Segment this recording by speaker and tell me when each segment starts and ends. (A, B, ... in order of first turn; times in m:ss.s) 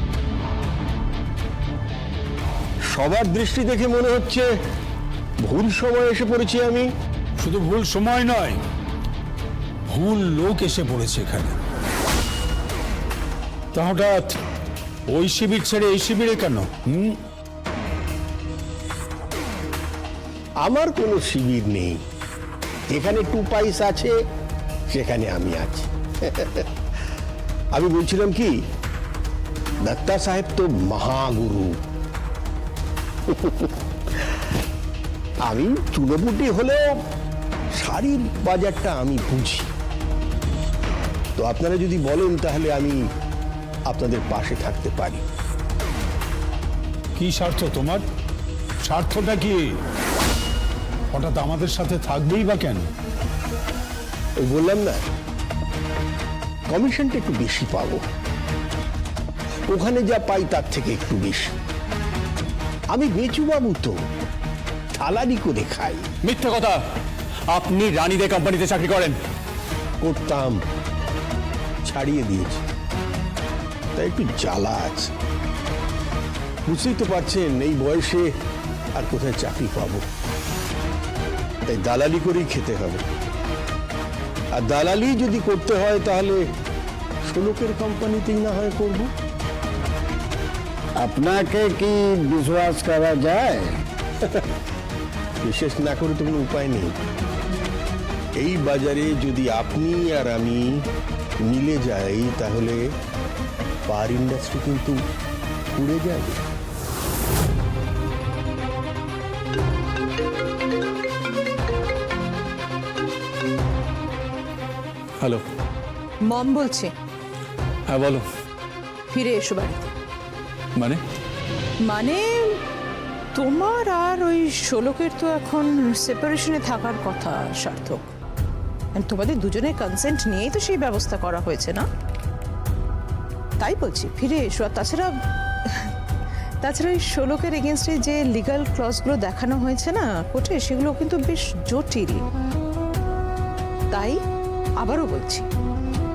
0:02.9-0:04.5 A
0:05.4-0:06.9 A
0:07.4-0:08.6 B
0:09.9-0:11.6 B
0:13.7-0:14.4 B
0:15.1-0:17.2 B
0:20.6-0:22.0 A
0:22.9-0:24.1 A
0:24.9-0:26.7 A
0:27.7-0:28.6 A
0:29.8-0:31.8 A
0:33.3-0:33.7 A
0:35.4-0:36.9 A
0:37.7-0:39.7 A
0:41.4-0:43.1 A
0:43.9-0:45.2 A
0:47.2-0:48.0 B
0:48.8-0:49.7 B
0:51.1-0:52.8 B
0:54.4-0:55.1 A
0:56.7-0:58.0 A
0:59.7-1:01.5 A
1:02.9-1:04.0 A
1:05.0-1:06.1 A
1:06.2-1:06.8 C
1:07.5-1:09.2 C
1:10.0-1:10.6 A
1:11.8-1:12.6 A
1:14.0-1:15.1 A
1:16.7-1:18.3 A
1:18.9-1:20.1 A
1:21.6-1:23.0 A
1:24.6-1:26.4 A
1:27.2-1:29.1 A
1:31.0-1:33.7 D
1:35.4-1:37.0 A
1:38.4-1:40.8 A
1:41.4-1:42.9 A
1:43.9-1:45.0 A
1:45.7-1:46.4 A
1:56.2-1:56.9 E
1:57.9-1:58.2 C
1:59.1-1:59.9 E
2:00.8-2:01.0 C
2:01.8-2:02.6 E
2:03.3-2:08.0 E
2:09.0-2:11.9 E
2:13.6-2:15.2 E
2:16.6-2:22.2 E
2:23.9-2:24.2 E
2:24.8-2:25.5 E